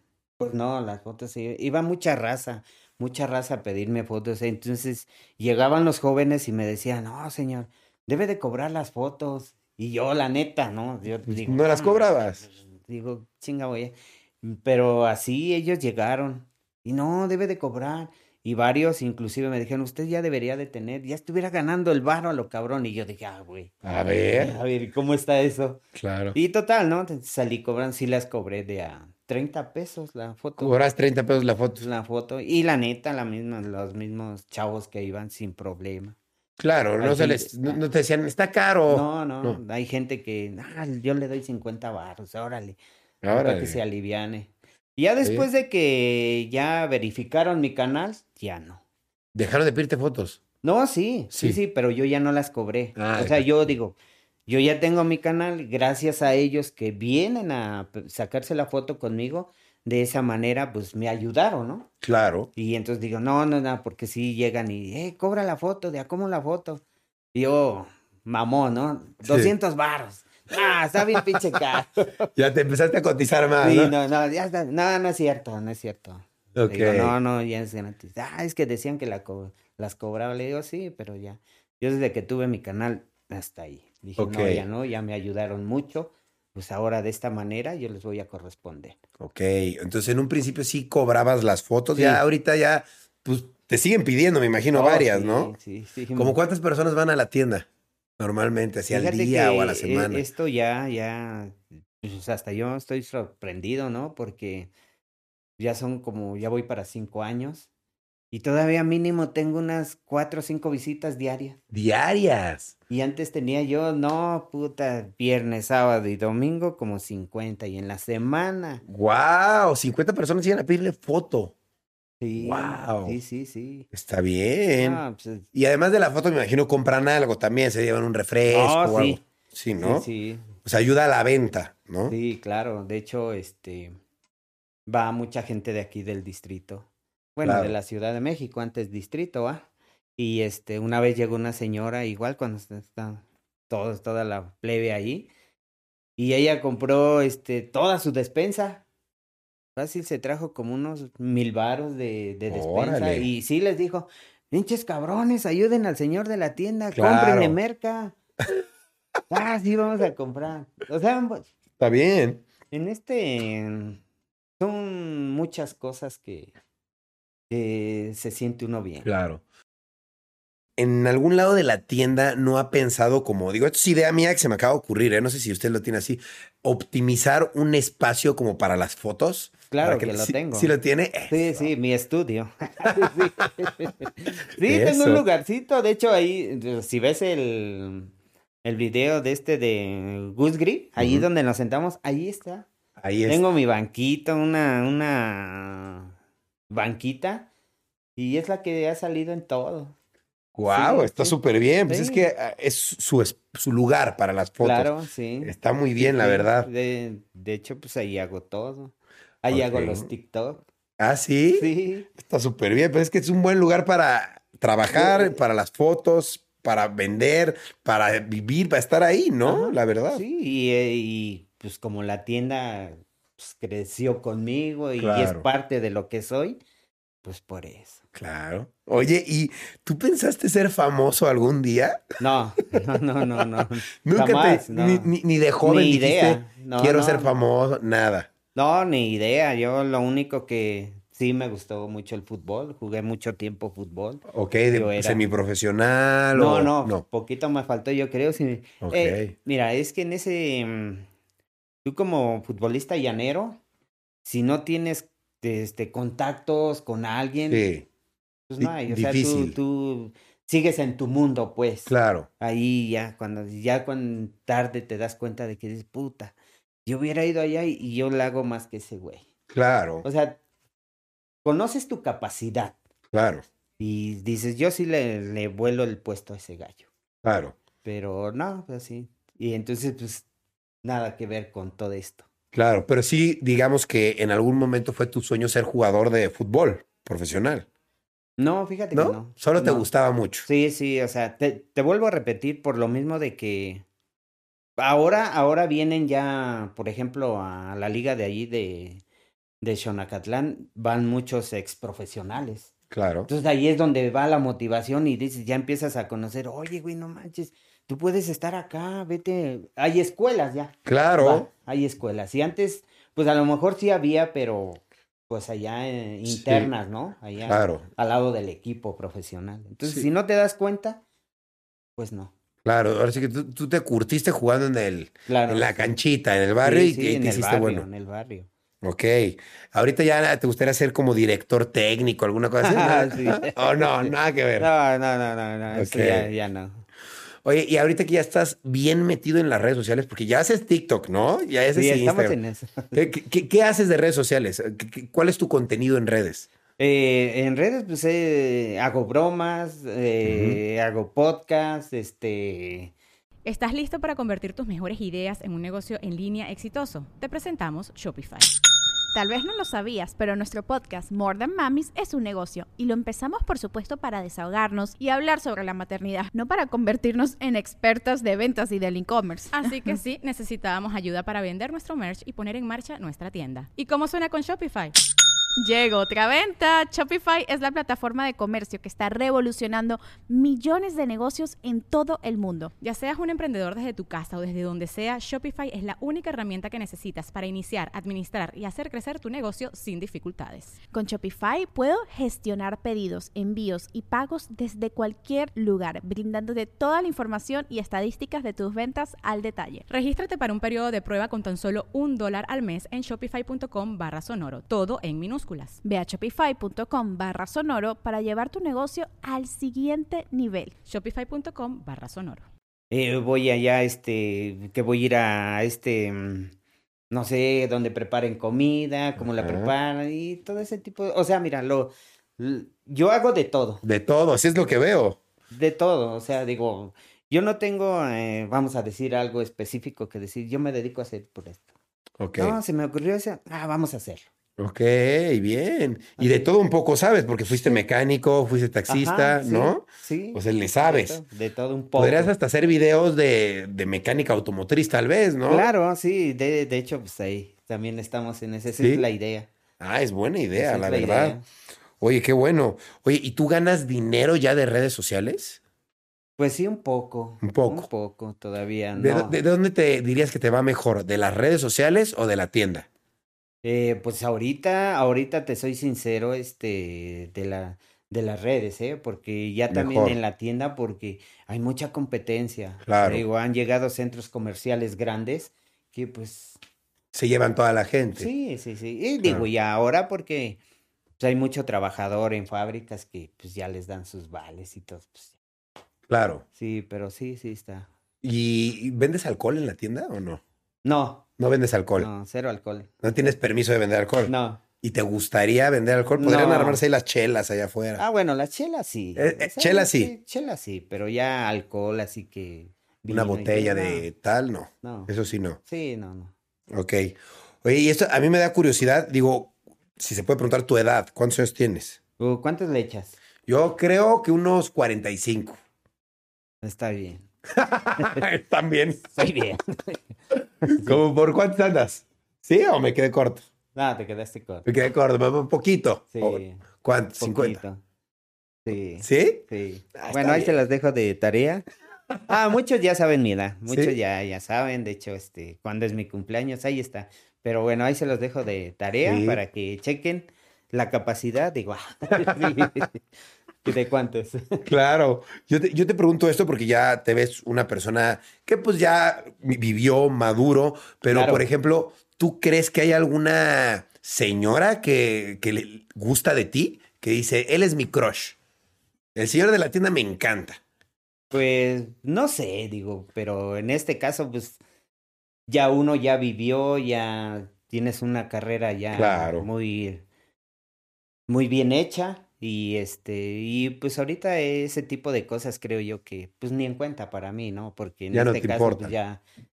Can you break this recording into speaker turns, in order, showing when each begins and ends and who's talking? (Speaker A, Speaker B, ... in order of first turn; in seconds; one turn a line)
Speaker A: 0.4-30.7
Speaker B: 11.2-12.4
Speaker B: 23.8-24.6
Speaker B: 25.9-26.4
Speaker B: 30.6-31.8
Speaker A: 31.8-36.1
Speaker B: 36.6-39.6
Speaker A: 37.0-37.8
Speaker A: 38.9-42.8
Speaker B: 43.2-43.8
Speaker A: 43.3-48.8
Speaker B: 45.2-45.5
Speaker B: 49.3-50.4
Speaker A: 50.6-61.9
Speaker B: 53.0-53.7
Speaker B: 62.0-62.5
Speaker A: 62.5-66.8
Speaker A: 67.3-72.3
Speaker B: 69.2-69.5
Speaker B: 72.3-73.9
Speaker A: 73.6-89.0
Speaker B: 76.5-77.1
Speaker B: 84.2-84.6
Speaker B: 89.2-95.5
Speaker A: 91.9-92.2
Speaker A: 94.7-96.4
Speaker B: 96.2-97.7
Speaker B: 98.2-100.2
Speaker A: 98.9-104.7
Speaker A: 105.6-107.7
Speaker A: 108.3-111.6
Speaker B: 111.7-112.7
Speaker A: 112.9-118.8
Speaker B: 118.9-121.5
Speaker A: 122.2-123.9
Speaker B: 122.4-123.2
Speaker B: 123.9-125.0
Speaker A: 124.8-125.5
Speaker B: 125.5-130.1
Speaker A: 128.5-129.2
Speaker A: 129.8-130.6
Speaker B: 130.6-132.1
Speaker A: 132.1-133.9
Speaker A: 134.9-145.3
Speaker B: 137.4-137.7
Speaker A: 146.2-148.8
Speaker A: 149.8-158.1
Speaker B: 152.5-153.3
Speaker B: 156.9-157.6
Speaker A: 159.3-161.5
Speaker B: 161.8-162.4
Speaker A: 162.7-164.0
Speaker A: 164.6-166.5
Speaker A: 167.5-169.1
Speaker B: 169.0-169.4
Speaker B: 170.8-181.7
Speaker A: 179.7-180.7
Speaker A: 181.3-188.1
Speaker B: 182.9-183.2
Speaker B: 184.6-185.2
Speaker A: 188.6-192.7
Speaker B: 191.0-191.2
Speaker B: 193.0-193.4
Speaker A: 193.2-196.1
Speaker A: 196.7-197.5
Speaker A: 198.2-199.9
Speaker B: 200.5-206.7
Speaker A: 200.7-202.3
Speaker A: 204.6-210.6
Speaker B: 209.5-210.1
Speaker B: 211.0-220.2
Speaker A: 211.5-212.1
Speaker A: 214.9-215.4
Speaker A: 219.4-226.6
Speaker B: 225.0-225.4
Speaker A: 227.2-228.0
Speaker B: 228.1-232.1
Speaker A: 232.2-237.3
Speaker B: 233.6-238.3
Speaker A: 238.5-245.2
Speaker B: 244.3-247.0
Speaker A: 246.3-251.1
Speaker B: 248.8-249.3
Speaker A: 251.8-253.6
Speaker A: 254.2-257.6
Speaker B: 257.5-257.9
Speaker A: 258.5-269.3
Speaker B: 258.6-259.6
Speaker B: 261.9-262.3
Speaker B: 269.5-270.0
Speaker A: 270.0-270.4
Speaker A: 271.4-272.8
Speaker B: 273.1-273.4
Speaker A: 273.8-276.9
Speaker B: 277.2-277.6
Speaker A: 277.8-280.2
Speaker A: 280.8-282.2
Speaker B: 282.5-287.7
Speaker A: 288.4-289.9
Speaker B: 288.9-290.4
Speaker A: 290.4-293.8
Speaker A: 294.8-299.0
Speaker A: 299.6-302.7
Speaker B: 302.9-303.3
Speaker A: 303.3-321.0
Speaker B: 310.8-311.5
Speaker B: 316.2-316.7
Speaker B: 317.5-317.9
Speaker A: 322.0-322.3
Speaker B: 322.6-327.9
Speaker A: 325.3-325.9
Speaker A: 326.6-328.5
Speaker B: 328.8-334.7
Speaker A: 332.6-336.8
Speaker B: 335.7-336.3
Speaker B: 337.4-342.4
Speaker A: 341.7-343.0
Speaker B: 342.9-346.5
Speaker A: 346.8-352.9
Speaker B: 350.2-350.6
Speaker C: 353.4-358.5
Speaker D: 359.1-370.0
Speaker C: 369.5-374.9
Speaker D: 375.6-382.7
Speaker C: 382.8-390.8
Speaker D: 390.9-399.9
Speaker C: 399.9-405.8
Speaker D: 405.8-410.7
Speaker C: 410.9-412.4
Speaker A: 412.9-416.5
Speaker A: 417.1-423.8
Speaker B: 419.2-419.7
Speaker B: 423.8-425.2
Speaker A: 425.5-431.7
Speaker B: 432.2-432.6
Speaker A: 432.4-434.3
Speaker B: 434.6-441.2
Speaker A: 436.2-436.5
Speaker A: 438.9-442.3
Speaker B: 441.9-445.7
Speaker A: 445.5-449.5
Speaker B: 448.8-449.1
Speaker B: 449.8-451.4
Speaker A: 450.5-451.4
Speaker B: 452.0-455.6
Speaker A: 456.4-459.4
Speaker B: 457.4-457.9
Speaker B: 458.9-462.9
Speaker A: 463.6-476.6
Speaker B: 469.7-470.2
Speaker B: 472.8-473.2
Speaker B: 477.1-478.3
Speaker A: 478.1-480.6
Speaker A: 481.2-485.4
Speaker B: 486.1-486.4
Speaker A: 486.6-487.9
Speaker B: 488.2-490.4
Speaker A: 490.8-491.2
Speaker B: 491.4-492.1
Speaker A: 492.0-493.0
Speaker B: 493.0-498.0
Speaker A: 494.2-494.6
Speaker A: 496.1-496.8
Speaker A: 498.0-504.1
Speaker B: 499.1-500.1
Speaker B: 503.1-505.6
Speaker A: 504.8-505.1
Speaker A: 505.6-506.3
Speaker B: 506.7-512.0
Speaker A: 512.2-513.2
Speaker B: 513.5-515.6
Speaker A: 516.6-517.3
Speaker B: 517.5-519.1
Speaker A: 518.0-518.2
Speaker A: 519.1-520.0
Speaker A: 520.6-521.0
Speaker B: 520.8-523.4
Speaker A: 523.7-524.7
Speaker B: 524.6-527.6
Speaker A: 526.1-526.6
Speaker A: 527.2-527.8
Speaker A: 528.6-531.6
Speaker B: 529.0-529.4
Speaker B: 530.0-530.5
Speaker A: 532.3-543.0
Speaker B: 533.7-534.0
Speaker B: 539.0-539.4
Speaker B: 542.2-542.7
Speaker A: 543.6-544.7
Speaker B: 544.6-558.4
Speaker A: 551.1-551.5
Speaker B: 559.1-560.6
Speaker A: 561.3-564.6
Speaker A: 565.5-570.0
Speaker B: 568.9-569.5
Speaker A: 571.3-579.2
Speaker B: 578.1-578.9